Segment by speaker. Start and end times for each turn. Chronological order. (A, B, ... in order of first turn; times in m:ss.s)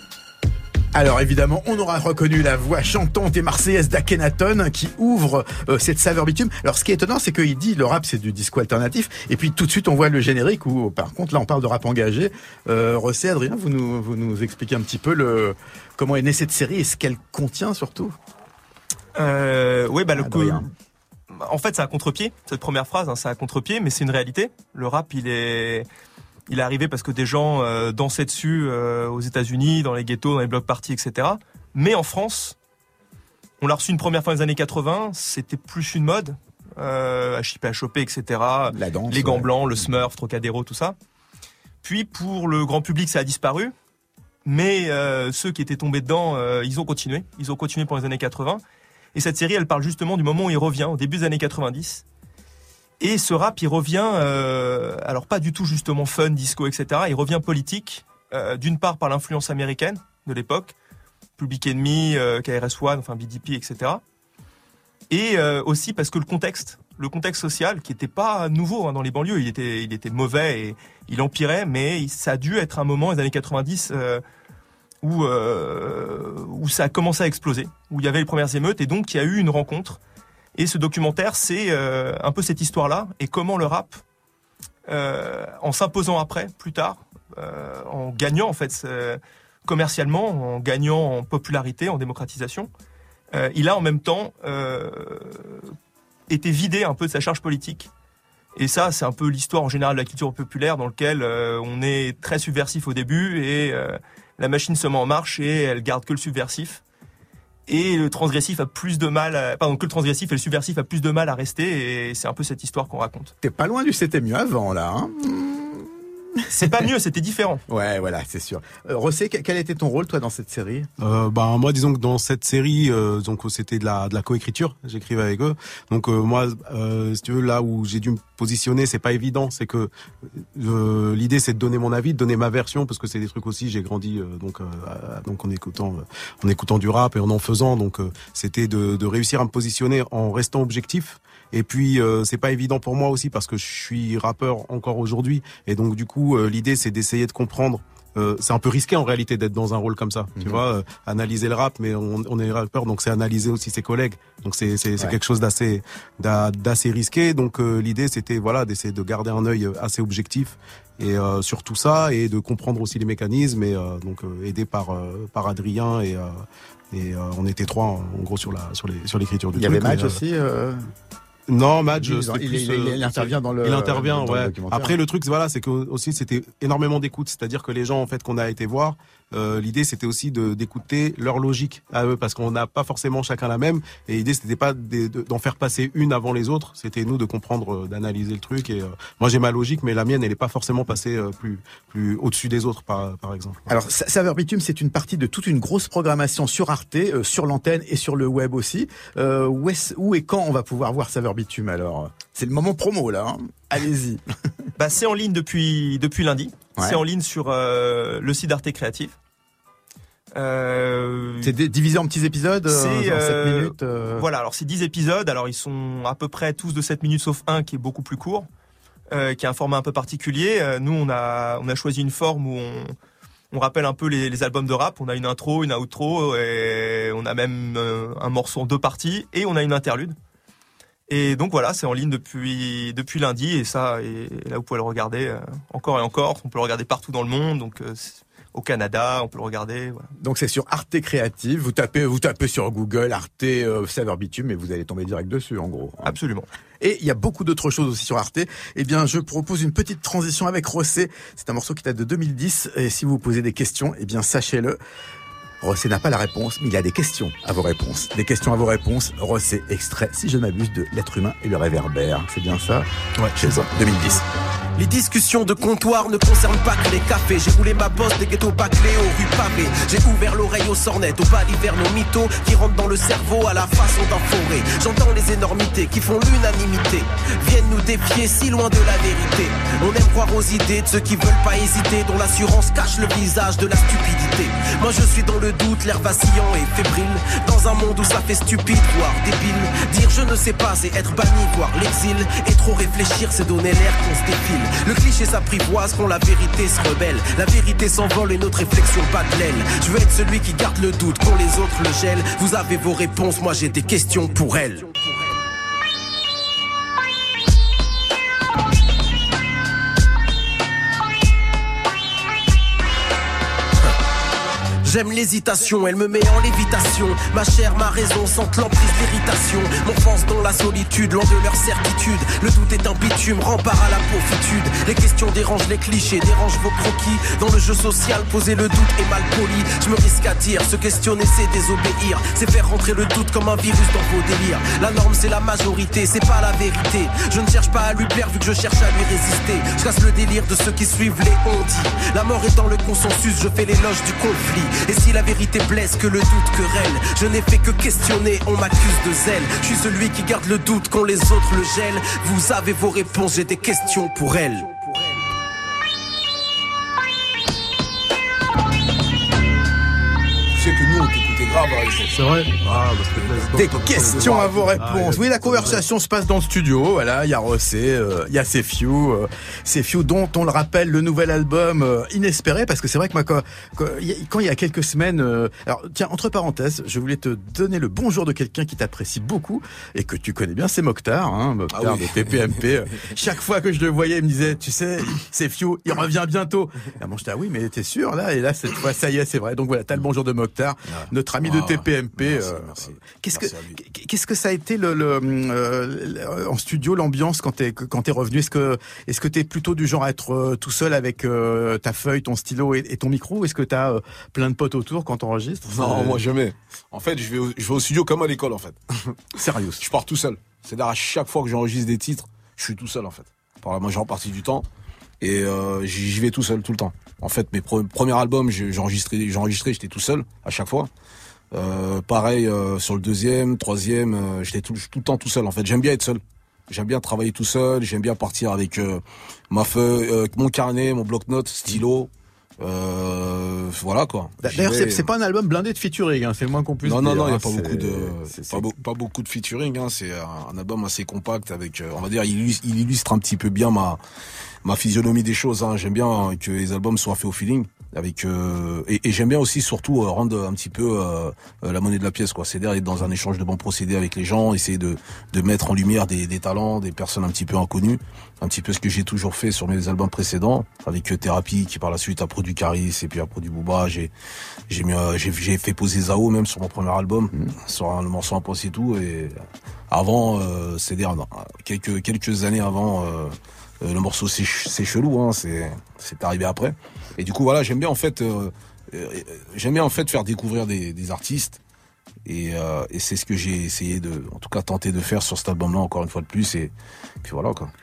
0:00.9-0:18.2 A
0:19.2-0:20.7 B
0:20.2-0:20.6 A
0:21.3-0:25.9 B
0:26.5-0:32.6 B
0:33.6-0:41.0 B
0:38.7-0:39.5 A
0:41.8-0:43.7 B
0:44.4-0:48.6 B
0:49.2-0:52.0 B
0:53.0-1:00.8 B
1:01.4-1:04.0 B
1:05.1-1:14.2 B
1:15.0-1:20.0 B
1:20.6-1:24.0 B
1:24.9-1:32.7 B
1:33.3-1:35.7 B
1:36.3-1:37.9 B
1:38.6-1:46.8 B
1:47.7-1:53.3 B
1:53.4-1:56.4 A
1:56.5-1:57.6 B
1:57.7-2:00.9 A
2:01.0-2:50.2 C
2:30.4-2:30.6 A
2:49.6-2:50.9 A
2:51.5-3:13.6 C
2:52.0-2:55.0 A
3:13.7-3:24.2 A
3:24.8-3:29.2 B
3:30.4-3:31.6 B
3:31.4-3:34.2 A
3:32.7-3:38.5 B
3:39.1-3:43.0 B
3:43.5-3:50.2 B
3:51.1-4:00.1 B
4:00.2-4:06.1 A
4:06.0-4:06.5 B
4:06.8-4:14.8 A
4:15.6-4:24.2 A
4:23.2-4:23.6 C
4:24.8-5:05.1 D
5:14.8-5:55.0 D
6:00.5-6:02.2 E
6:02.1-6:05.8 C
6:03.5-6:46.2 A
6:21.7-6:22.5 E
6:30.9-6:33.8 E
6:45.7-6:48.8 E
6:49.4-6:49.8 A
6:49.8-6:54.7 E
6:55.2-7:00.9 E
7:01.5-7:15.0 E
7:14.4-7:18.7 A
7:16.8-7:24.0 E
7:24.6-7:44.1 E
7:44.7-7:49.4 E
7:49.9-8:01.6 E
8:02.2-8:06.7 E
8:07.2-8:07.7 E